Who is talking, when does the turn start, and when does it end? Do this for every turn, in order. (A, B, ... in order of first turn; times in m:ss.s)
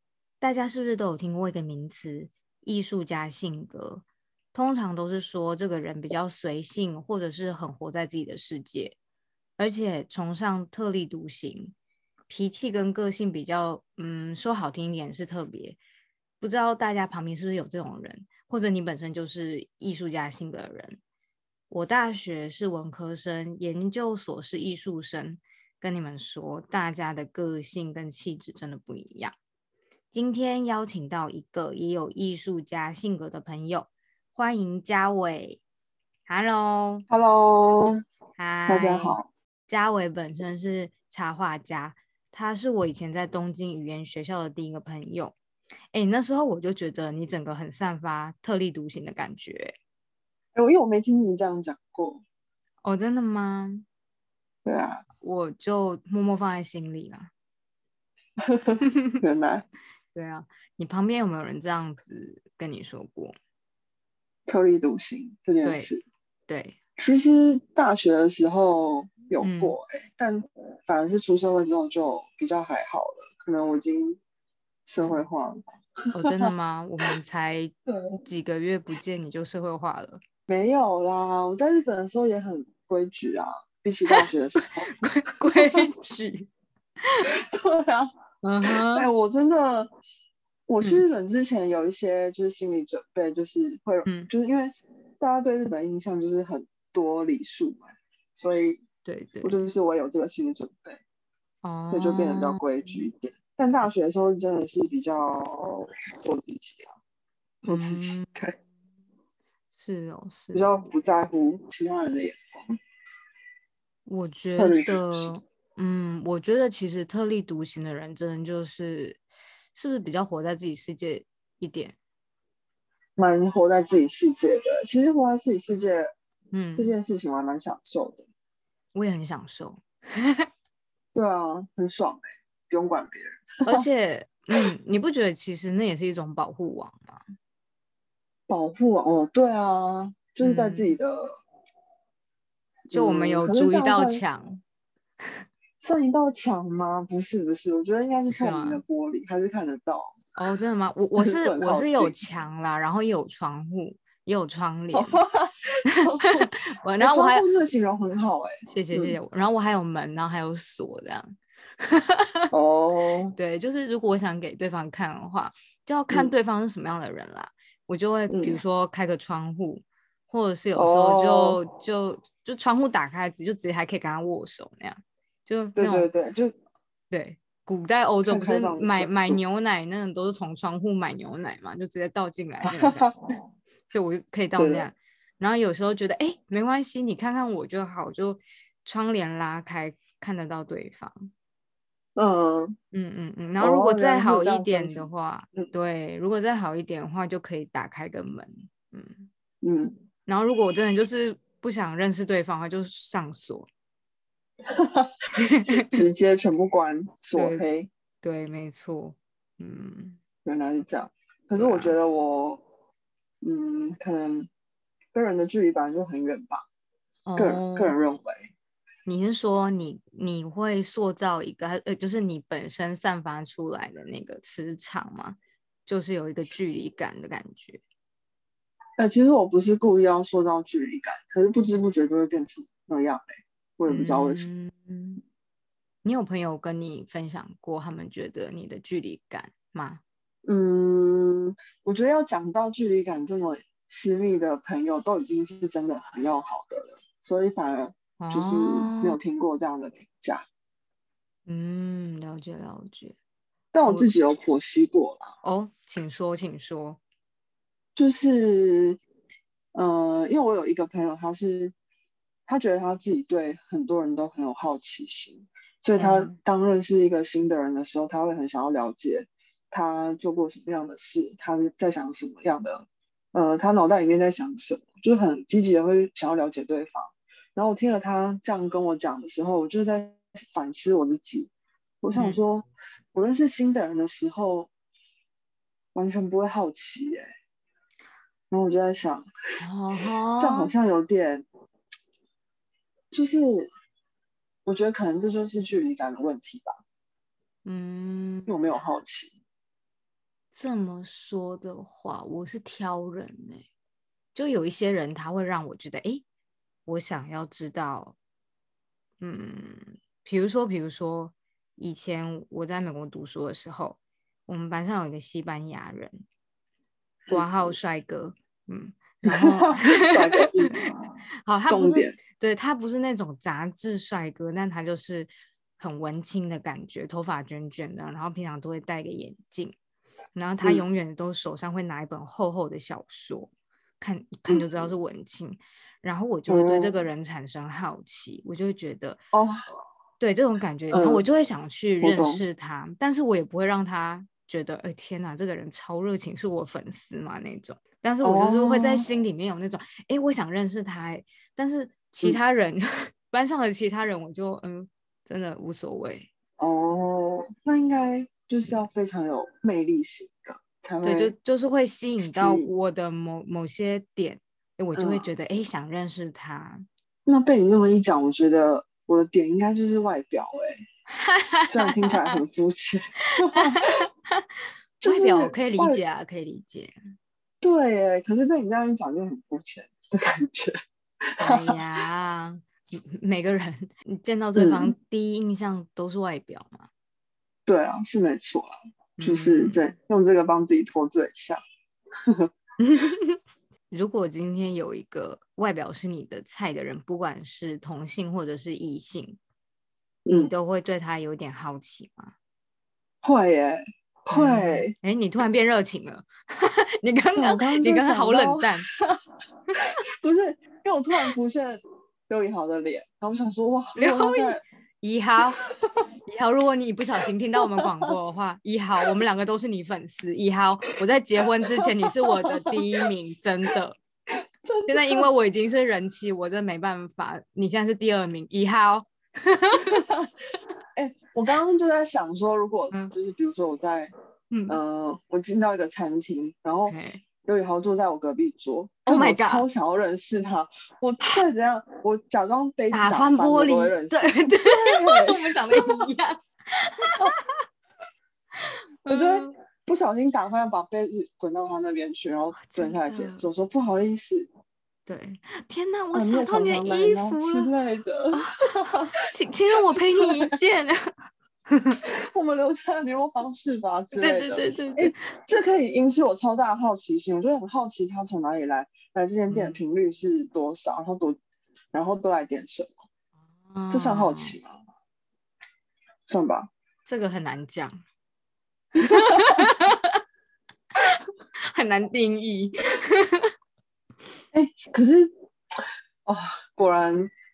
0:00.4-0:09.0 A
0:09.6-0:11.8 A
0:12.3-0:15.8 A
0:16.4-0:21.0 A
0:21.7-0:29.3 A
0:30.1-0:35.6 A
0:36.3-0:37.1 A
0:37.1-0:38.0 B
0:38.4-0:39.2 A
0:38.7-0:39.3 B
0:39.7-0:45.4 A
0:45.9-0:49.8 A
0:50.6-0:52.2 B
0:52.8-0:53.9 A
0:54.6-0:55.0 B
0:55.2-0:57.3 A
0:58.4-0:59.7 B
0:58.8-0:59.2 A
1:00.1-1:03.4 A
1:04.5-1:06.0 B
1:05.6-1:05.9 A
1:06.5-1:06.8 A
1:07.0-1:14.2 B
1:09.4-1:09.8 A
1:14.9-1:16.5 B
1:16.1-1:17.7 A
1:17.9-1:18.2 B
1:18.2-1:20.2 A
1:20.5-1:24.9 B
1:24.9-1:26.5 A
1:25.5-1:25.8 B
1:27.0-1:27.3 A
1:27.3-1:28.1 B
1:28.4-1:29.1 A
1:28.7-1:29.9 B
1:30.7-1:38.8 B
1:39.0-1:39.6 A
1:39.4-1:41.0 B
1:41.6-1:42.9 A
1:41.9-1:47.0 B
1:47.6-1:48.5 B
1:47.7-1:48.4 A
1:49.7-1:50.7 A
1:50.5-1:52.8 B
1:54.1-1:59.2 A
1:54.6-1:55.3 B
1:59.7-2:02.0 A
2:03.2-2:06.1 B
2:06.5-2:06.9 A
2:06.8-2:08.3 B
2:08.9-2:10.5 A
2:11.1-2:13.8 B
2:13.6-2:17.2 A
2:18.5-2:21.4 B
2:20.4-2:21.0 A
2:22.9-2:24.2 B
2:22.9-2:24.6 A
2:25.8-2:30.2 B
2:28.3-2:28.8 A
2:30.4-2:35.2 A
2:31.2-2:32.2 B
2:34.9-2:39.2 B
2:35.8-2:37.5 A
2:38.7-2:42.5 A
2:42.5-2:43.4 B
2:43.4-2:56.1 A
2:48.3-2:48.6 B
2:50.8-2:51.6 B
2:55.8-2:56.5 B
2:57.1-3:03.1 A
2:58.2-2:59.4 B
3:02.7-3:03.2 B
3:03.9-3:11.3 A
3:04.6-3:04.9 B
3:12.2-3:12.8 B
3:12.9-3:19.3 A
3:13.6-3:15.7 B
3:19.6-3:20.0 B
3:20.3-3:23.7 A
3:24.7-3:25.1 B
3:25.4-3:26.0 A
3:25.7-3:27.9 B
3:27.4-3:27.6 A
3:28.2-3:30.2 A
3:30.4-3:32.6 B
3:31.6-3:32.0 A
3:33.4-3:34.5 B
3:35.1-3:36.7 B
3:37.3-3:38.0 A
3:37.4-3:38.5 B
3:39.1-3:47.8 A
3:49.0-3:54.5 B
3:53.9-3:55.2 A
3:56.0-4:00.0 A
4:00.4-4:10.5 B
4:08.2-4:09.2 A
4:11.5-4:13.2 A
4:13.7-4:15.3 B
4:15.4-4:17.0 A
4:18.0-4:19.0 B
4:19.7-4:21.7 B
4:22.5-4:41.5 B
4:26.0-4:26.4 A
4:42.0-4:44.7 B
4:42.1-4:42.4 A
4:46.0-4:47.3 B
4:48.5-4:49.3 B
4:49.6-4:50.7 A
4:50.4-4:51.5 B
4:53.1-4:53.7 B
4:54.7-4:56.8 B
4:57.6-4:58.5 A
4:58.5-4:59.4 B
5:00.5-5:03.7 A
5:04.4-5:06.2 A
5:06.9-5:08.2 A
5:09.2-5:16.2 A
5:17.3-5:17.7 B
5:17.3-5:20.7 A
5:19.3-5:22.2 B
5:21.5-5:29.8 A
5:30.4-5:39.2 A
5:36.5-5:36.9 B
5:39.3-5:39.6 B
5:40.2-5:56.3 A
5:40.9-5:41.2 B
5:42.0-5:42.4 B
5:48.2-5:49.0 B
5:56.6-6:01.3 B
6:01.0-6:06.9 A
6:02.2-6:02.7 B
6:05.0-6:05.2 B
6:07.3-6:10.8 B
6:11.1-6:12.4 A
6:11.7-6:14.0 B
6:13.3-6:14.5 A
6:15.0-6:16.0 B
6:15.0-6:17.0 A
6:17.6-6:20.8 B
6:21.4-6:21.8 B
6:21.4-6:26.9 A
6:24.6-6:24.9 B
6:27.7-6:31.6 B
6:29.2-6:29.8 A
6:32.8-6:33.4 A
6:33.9-6:39.4 A
6:40.2-6:40.5 B
6:40.3-6:42.3 A
6:43.2-6:44.9 B
6:44.3-6:48.9 A
6:47.4-6:49.2 B
6:50.2-6:54.6 B
6:54.0-6:55.6 A
6:55.6-6:56.0 B
6:56.3-7:04.0 A
6:57.6-6:58.1 B
7:01.5-7:02.8 B
7:04.6-7:05.3 B
7:04.9-7:10.0 A
7:09.8-7:10.3 B
7:11.0-7:14.1 B
7:14.5-7:14.8 A
7:14.7-7:26.1 B
7:16.9-7:17.2 A
7:19.1-7:19.7 A
7:22.9-7:27.6 A
7:28.6-7:29.5 A
7:29.1-7:34.5 B
7:32.6-7:33.5 A
7:35.1-7:37.7 A
7:36.1-7:39.1 B
7:38.3-7:41.1 A
7:39.9-7:40.5 B
7:41.7-7:42.0 A
7:42.0-7:51.4 B
7:44.2-7:45.2 A
7:49.5-7:49.8 A
7:51.9-7:52.9 B
7:53.7-7:54.6 A
7:53.9-7:54.8 B
7:56.3-7:56.7 B
7:57.0-7:58.0 A
7:59.0-8:00.2 A
7:59.0-7:59.6 B
8:01.0-8:03.5 A
8:04.5-8:07.3 B